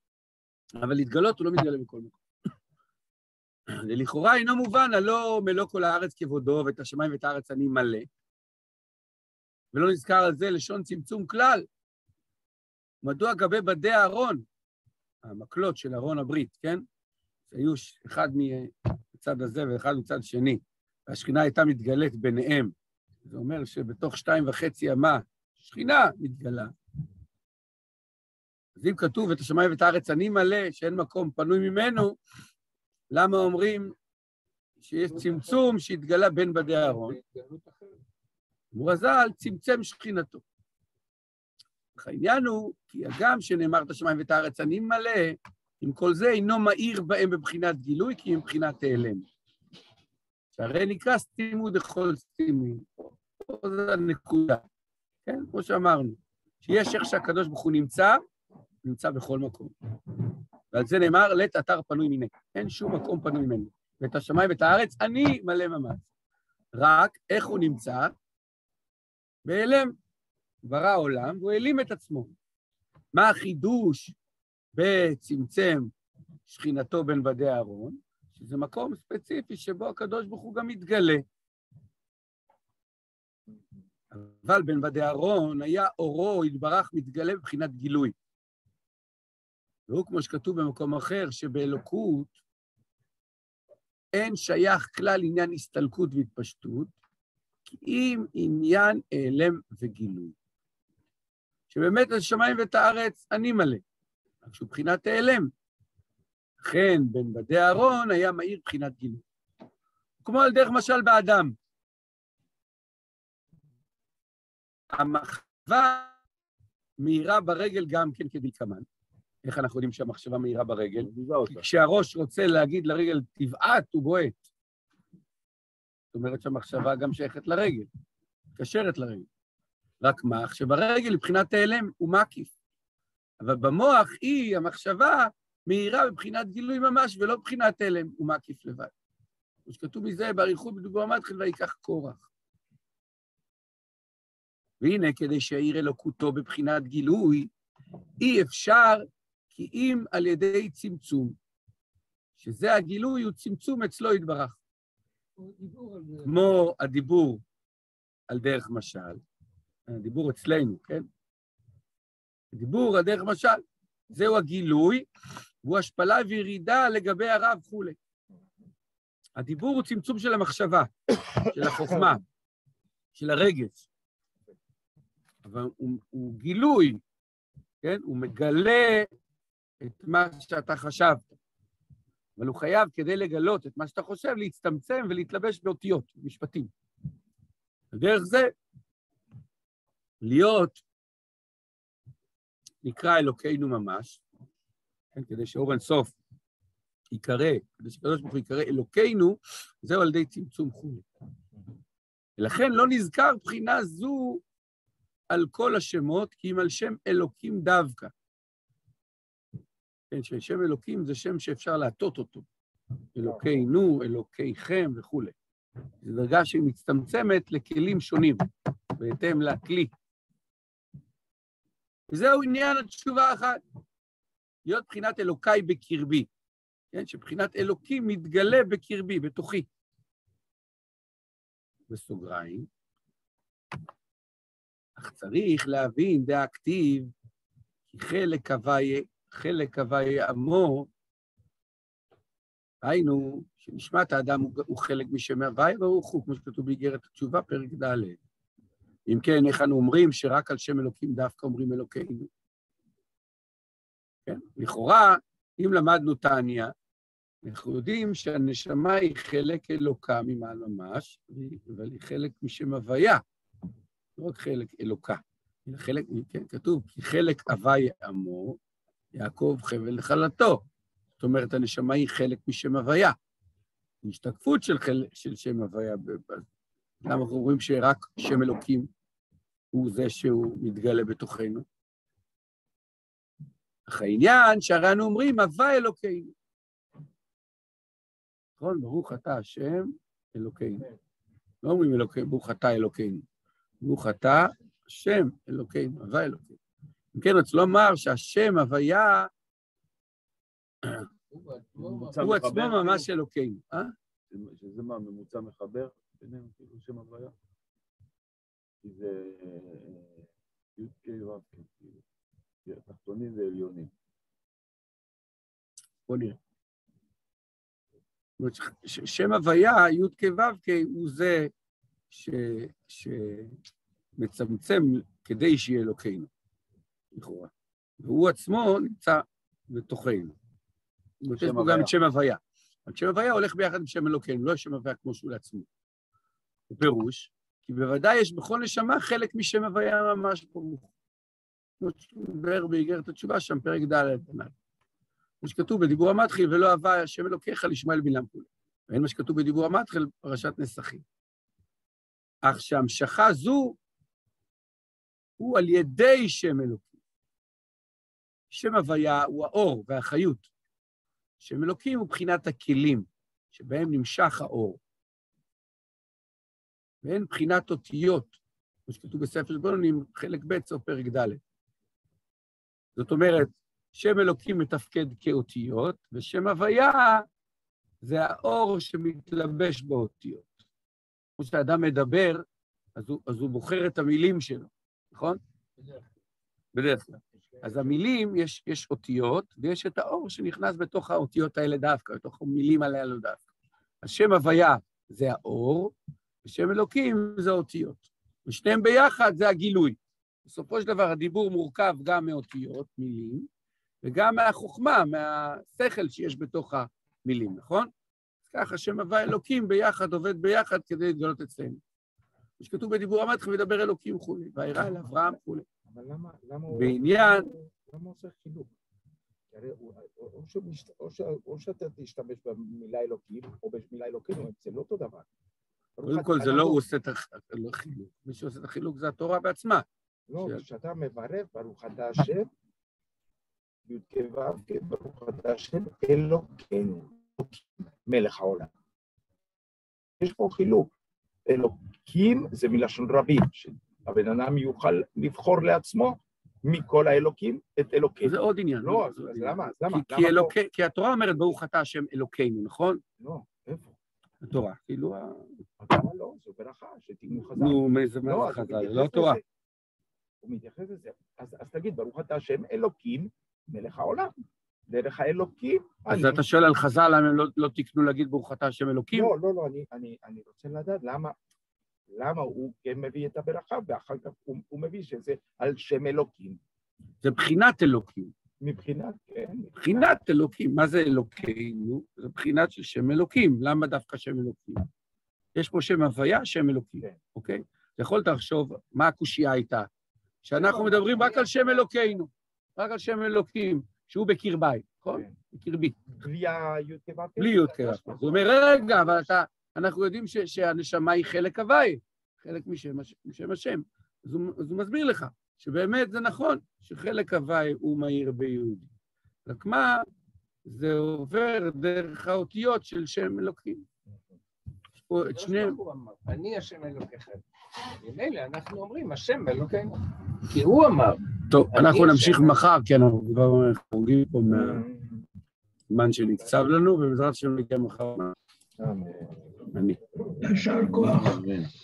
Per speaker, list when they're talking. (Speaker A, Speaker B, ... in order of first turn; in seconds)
Speaker A: 0.8-2.2, 3.7-8.1, 9.7-11.7, 13.0-14.4, 15.2-16.8, 17.5-22.7, 23.2-26.7, 28.8-32.2, 33.1-33.9, 34.8-37.2, 38.7-40.4, 42.0-49.2, 50.5-54.6, 55.2-58.2, 58.8-59.7, 60.7-66.0, 66.7-68.1, 69.4-69.9, 70.6-72.3, 73.1-74.1, 74.7-75.9, 76.5-81.2, 84.1-88.1, 89.9-92.3, 94.1-96.9, 97.7-100.3, 101.7-103.8, 104.4-105.5, 106.6-109.2, 110.2-111.5, 114.9-116.1, 117.0-118.8, 119.4-124.4, 126.1-127.9, 128.6-129.3, 130.0-132.5, 133.4-138.9, 139.7-142.2, 144.8-147.5, 148.2-151.3, 152.4-154.6, 156.2-157.4, 158.3-159.2, 159.9-161.1, 162.5-165.1, 165.6-167.9, 169.4-172.2, 173.1-173.8, 175.4-177.0, 177.8-179.1, 179.8-181.3, 182.4-186.7, 187.9-188.5, 190.2-190.8, 192.8-194.2, 195.1-196.1, 197.1-201.0, 202.4-204.4, 205.3-208.1, 210.1-212.4, 213.1-215.3, 216.0-218.4, 219.0-219.9, 222.1-223.6, 224.7-226.3, 226.9-229.7, 231.9-232.7, 235.0-237.1, 237.9-240.9, 242.8-248.2, 249.1-252.3, 254.2-256.7, 257.4-263.2, 264.2-268.6, 269.1-270.6, 271.2-273.1, 274.0-276.4, 277.0-278.9, 279.7-281.6, 283.9-286.3, 288.6-290.9, 291.6-293.2, 293.8-296.6, 297.1-299.3, 302.1-303.9, 316.1-316.4, 318.4-321.5, 322.1-323.5, 324.2-326.3, 327.1-330.3, 331.2-335.7, 336.7-340.9, 341.8-344.5, 345.4-351.0, 352.4-353.8, 355.4-356.9, 358.5-360.5, 361.4-364.8, 367.0-368.3, 368.9-371.4, 372.9-377.2, 378.0-380.5, 381.4-382.4, 382.9-385.4, 386.7-393.4, 394.0-403.5, 404.0-407.9, 408.5-411.8, 412.6-415.6, 416.7-417.5, 426.1-429.8, 448.2-453.0, 454.4-455.6, 457.6-459.4, 466.1-469.3, 477.2-478.3, 479.8-484.9, 485.5-489.9, 490.4-496.0, 497.4-508.9, 509.4-510.1, 510.6-513.8, 515.0-515.8, 521.5-524.8, 525.9-528.3, 529.7-530.0
Speaker B: 35.1-35.6, 36.7-38.0, 155.4-156.4, 301.3-303.1, 385.8-386.1, 387.4-388.0, 490.5-492.0, 497.7-499.3, 515.2-517.4, 518.0-522.6, 530.4-531.2
Speaker C: 121.0-121.7, 301.8-303.0, 304.3-307.3, 308.8-310.2, 310.8-312.0, 312.6-313.9, 331.4-331.9, 530.6-531.7
Speaker D: 415.9-418.7, 419.5-425.2, 426.0-426.8, 430.3-432.5, 433.9-438.7, 440.2-440.9, 441.5-450.5, 453.2-453.9, 455.8-459.4, 460.4-464.3, 464.9-466.4, 469.1-471.4, 472.1-476.6, 478.6-480.0, 496.2-497.8, 524.5-525.2, 528.8-529.4